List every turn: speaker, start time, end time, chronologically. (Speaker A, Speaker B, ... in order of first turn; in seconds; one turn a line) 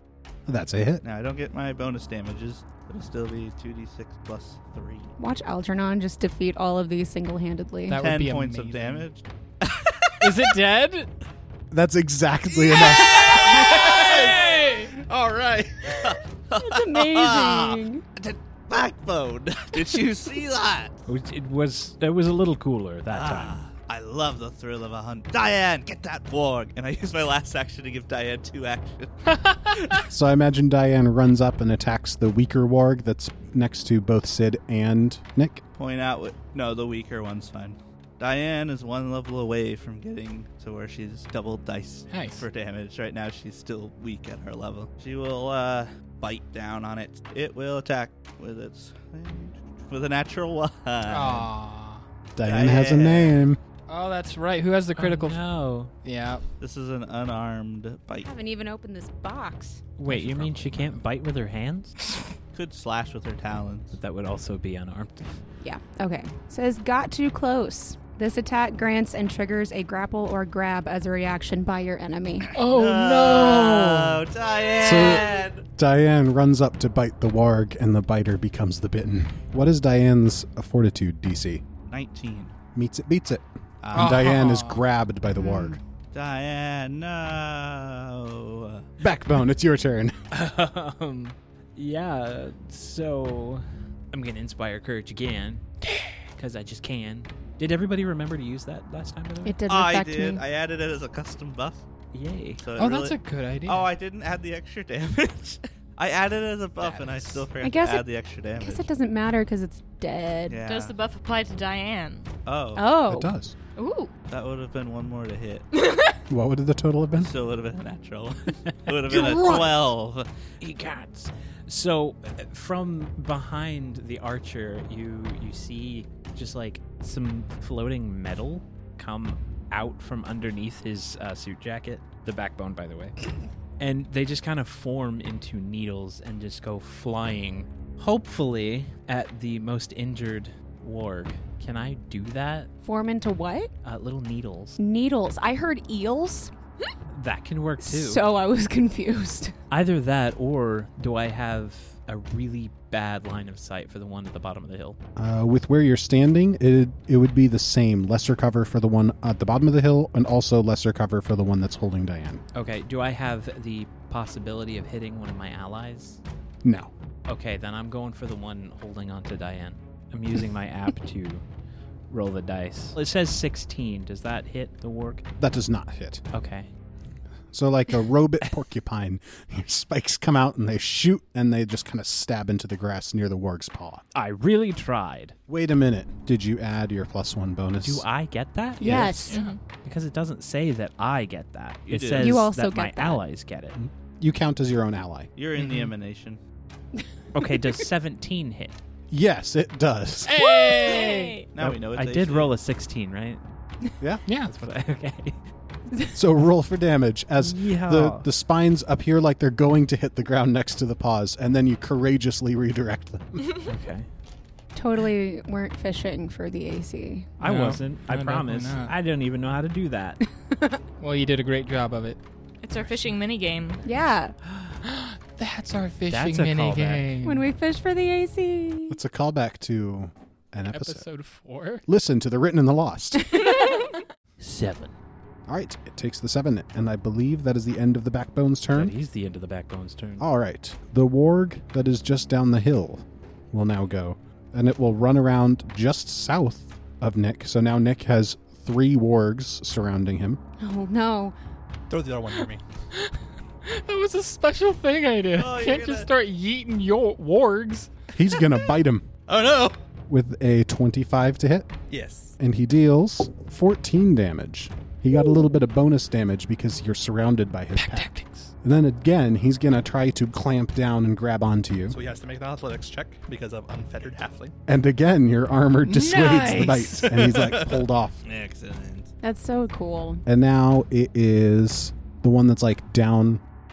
Speaker A: 0.5-1.0
Speaker B: 1.0-5.1
Speaker C: 5.2-8.0
Speaker D: 7.9-9.1
Speaker B: 8.0-10.5
Speaker D: 10.2-11.1
Speaker A: 11.7-13.4
Speaker E: 13.1-16.1
Speaker D: 14.6-14.9
Speaker B: 15.8-21.0
Speaker C: 16.6-18.0
Speaker F: 21.1-23.6
Speaker B: 23.1-29.3
Speaker A: 30.1-35.6
Speaker B: 35.8-51.5
Speaker D: 42.1-42.5
Speaker D: 51.1-52.0
Speaker A: 52.3-53.6
Speaker B: 52.4-53.4
Speaker D: 53.9-55.4
Speaker F: 55.0-55.9
Speaker D: 56.0-56.4
Speaker B: 56.6-58.3
Speaker C: 58.2-59.8
Speaker F: 60.0-62.0
Speaker D: 60.1-60.4
Speaker B: 62.5-64.0
Speaker F: 63.9-65.3
Speaker C: 65.6-72.5
Speaker D: 72.5-74.2
Speaker B: 72.5-75.6
Speaker A: 74.8-81.6
Speaker B: 81.9-82.5
Speaker A: 82.7-85.8
Speaker B: 83.8-84.2
Speaker D: 83.9-84.8
Speaker C: 85.3-85.8
Speaker B: 86.1-88.8
Speaker A: 89.0-90.2
Speaker F: 90.3-95.6
Speaker D: 95.8-96.1
Speaker F: 96.3-99.6
Speaker C: 99.4-100.4
Speaker B: 99.7-101.8
Speaker F: 102.1-102.7
Speaker B: 102.6-108.9
Speaker D: 102.8-103.9
Speaker F: 106.8-107.4
Speaker C: 107.6-108.0
Speaker C: 108.6-110.6
Speaker B: 110.5-111.0
Speaker G: 110.7-112.3
Speaker B: 112.5-113.0
Speaker C: 112.8-113.3
Speaker A: 113.1-113.5
Speaker G: 113.8-114.1
Speaker B: 114.3-115.7
Speaker G: 115.8-116.1
Speaker A: 116.3-117.3
Speaker B: 117.2-120.2
Speaker F: 118.7-119.8
Speaker F: 120.6-133.2
Speaker F: 133.8-142.7
Speaker C: 142.8-143.7
Speaker F: 143.8-144.8
Speaker C: 144.8-146.5
Speaker F: 147.1-148.3
Speaker C: 147.8-149.5
Speaker F: 149.7-155.0
Speaker A: 155.2-162.4
Speaker F: 162.5-166.2
Speaker A: 166.6-166.9
Speaker F: 167.3-171.4
Speaker F: 172.1-175.2
Speaker A: 175.4-176.2
Speaker F: 176.3-176.7
Speaker A: 177.5-184.0
Speaker F: 184.1-185.3
Speaker A: 185.5-188.1
Speaker F: 187.8-189.3
Speaker C: 188.8-189.4
Speaker A: 188.8-189.3
Speaker G: 189.3-189.6
Speaker F: 189.8-193.8
Speaker B: 191.8-192.4
Speaker C: 192.2-193.2
Speaker A: 193.7-195.3
Speaker B: 195.3-196.4
Speaker D: 195.6-195.9
Speaker F: 197.3-198.8
Speaker A: 199.1-200.4
Speaker D: 200.2-201.4
Speaker G: 200.5-201.5
Speaker B: 201.5-202.5
Speaker F: 201.6-203.4
Speaker D: 204.3-204.5
Speaker F: 204.3-205.4
Speaker A: 206.1-213.4
Speaker F: 207.4-208.3
Speaker F: 213.6-214.1
Speaker C: 214.7-217.3
Speaker F: 217.4-220.2
Speaker D: 217.4-218.9
Speaker C: 220.5-220.8
Speaker D: 221.0-222.2
Speaker G: 222.6-223.8
Speaker C: 223.8-224.3
Speaker F: 224.5-224.8
Speaker D: 224.8-227.5
Speaker F: 226.1-227.1
Speaker C: 227.2-229.0
Speaker A: 228.9-231.1
Speaker D: 230.7-231.8
Speaker A: 231.8-233.2
Speaker C: 233.2-233.8
Speaker F: 234.4-234.9
Speaker A: 235.5-238.9
Speaker F: 238.7-240.3
Speaker A: 240.2-250.4
Speaker C: 250.6-251.3
Speaker E: 251.9-252.6
Speaker D: 253.6-257.9
Speaker B: 255.3-256.1
Speaker A: 258.1-259.1
Speaker E: 259.3-259.8
Speaker A: 260.1-261.7
Speaker E: 261.9-262.4
Speaker A: 262.4-268.1
Speaker D: 267.7-268.5
Speaker A: 268.6-272.0
Speaker E: 271.9-274.5
Speaker A: 274.7-278.2
Speaker D: 275.8-277.1
Speaker E: 277.1-277.7
Speaker B: 278.2-279.1
Speaker C: 279.2-280.2
Speaker A: 280.2-283.4